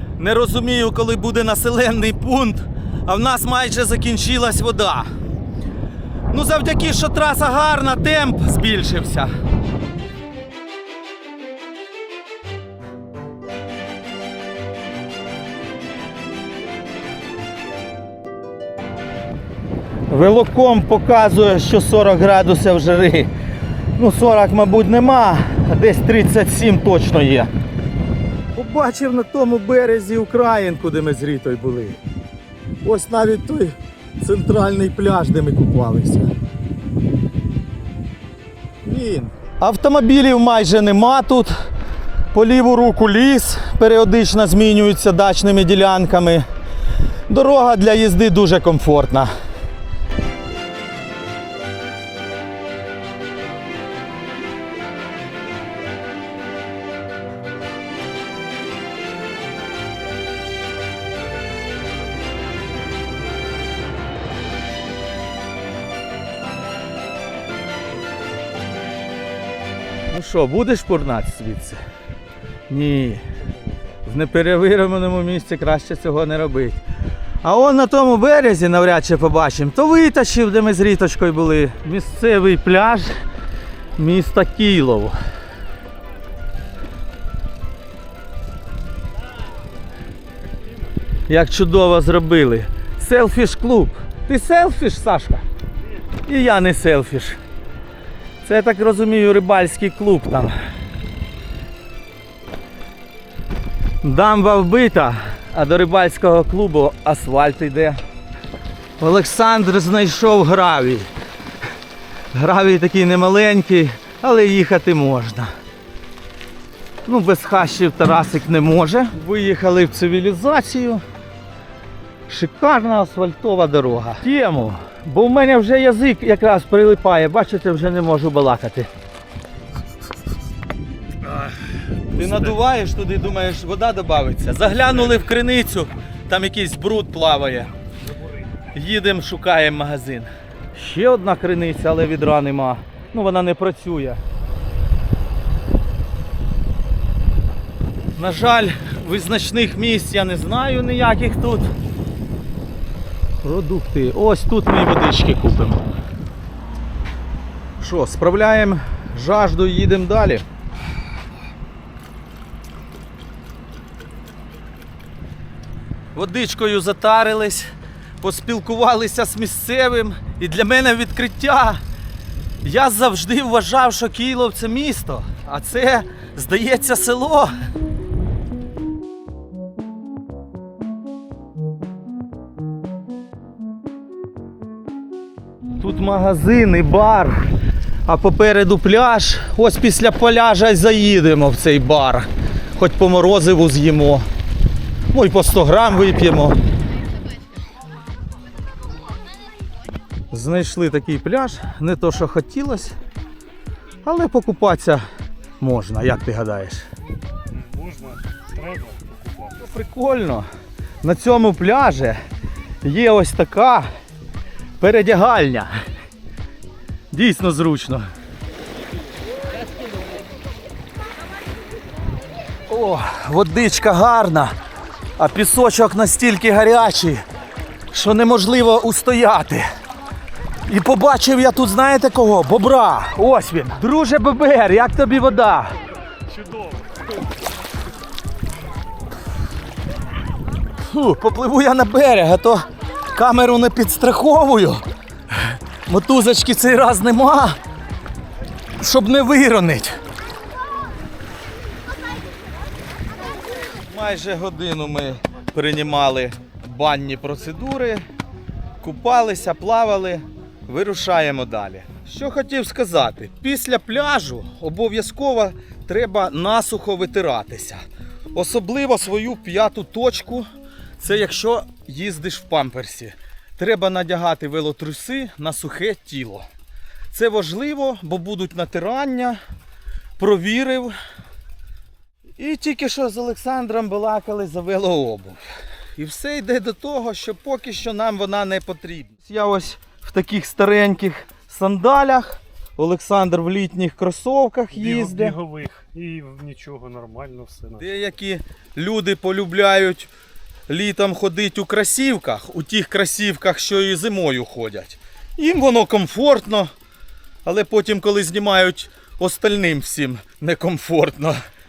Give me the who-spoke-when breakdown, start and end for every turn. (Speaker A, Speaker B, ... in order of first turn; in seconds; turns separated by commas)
Speaker A: 0.2-5.1, Speaker A: 6.3-9.3, Speaker A: 20.1-23.3, Speaker A: 24.0-27.5, Speaker A: 28.5-32.0, Speaker A: 32.8-36.3, Speaker A: 38.8-41.5, Speaker A: 42.3-46.4, Speaker A: 47.3-49.3, Speaker A: 70.1-71.8, Speaker A: 72.7-73.2, Speaker A: 74.0-76.8, Speaker A: 77.4-83.1, Speaker A: 84.0-85.2, Speaker B: 90.5-90.8, Speaker A: 91.3-95.4, Speaker B: 95.8-96.0, Speaker A: 96.3-97.4, Speaker A: 98.4-100.5, Speaker A: 104.0-108.0, Speaker A: 109.0-111.1, Speaker A: 112.3-115.5, Speaker A: 117.0-121.0, Speaker A: 122.3-128.9, Speaker B: 131.2-131.6, Speaker B: 132.1-132.6, Speaker A: 132.2-137.7, Speaker A: 138.7-144.2, Speaker A: 148.2-151.7, Speaker A: 153.4-155.8, Speaker A: 157.8-160.4, Speaker A: 166.1-167.7, Speaker A: 168.2-171.8, Speaker A: 172.6-177.5, Speaker A: 185.8-187.4, Speaker A: 188.1-194.2, Speaker A: 195.1-196.6, Speaker A: 200.3-202.9, Speaker A: 204.0-205.0, Speaker A: 205.6-206.8, Speaker B: 207.5-209.7, Speaker A: 209.6-210.5, Speaker A: 211.0-212.2, Speaker A: 212.8-213.9, Speaker A: 214.8-215.7, Speaker A: 217.1-218.1, Speaker A: 222.7-224.5, Speaker A: 225.2-227.2, Speaker A: 227.9-229.6, Speaker A: 230.7-235.7, Speaker B: 236.3-237.2, Speaker A: 240.8-244.8, Speaker A: 245.3-247.6, Speaker A: 248.8-249.9, Speaker A: 253.9-258.0, Speaker A: 258.8-267.8, Speaker A: 268.3-270.4, Speaker A: 271.0-276.4, Speaker A: 277.1-279.4, Speaker A: 280.2-280.9, Speaker A: 282.4-285.4, Speaker A: 286.0-295.4, Speaker B: 294.7-297.9, Speaker A: 297.8-300.1, Speaker A: 300.7-306.7, Speaker A: 307.4-311.4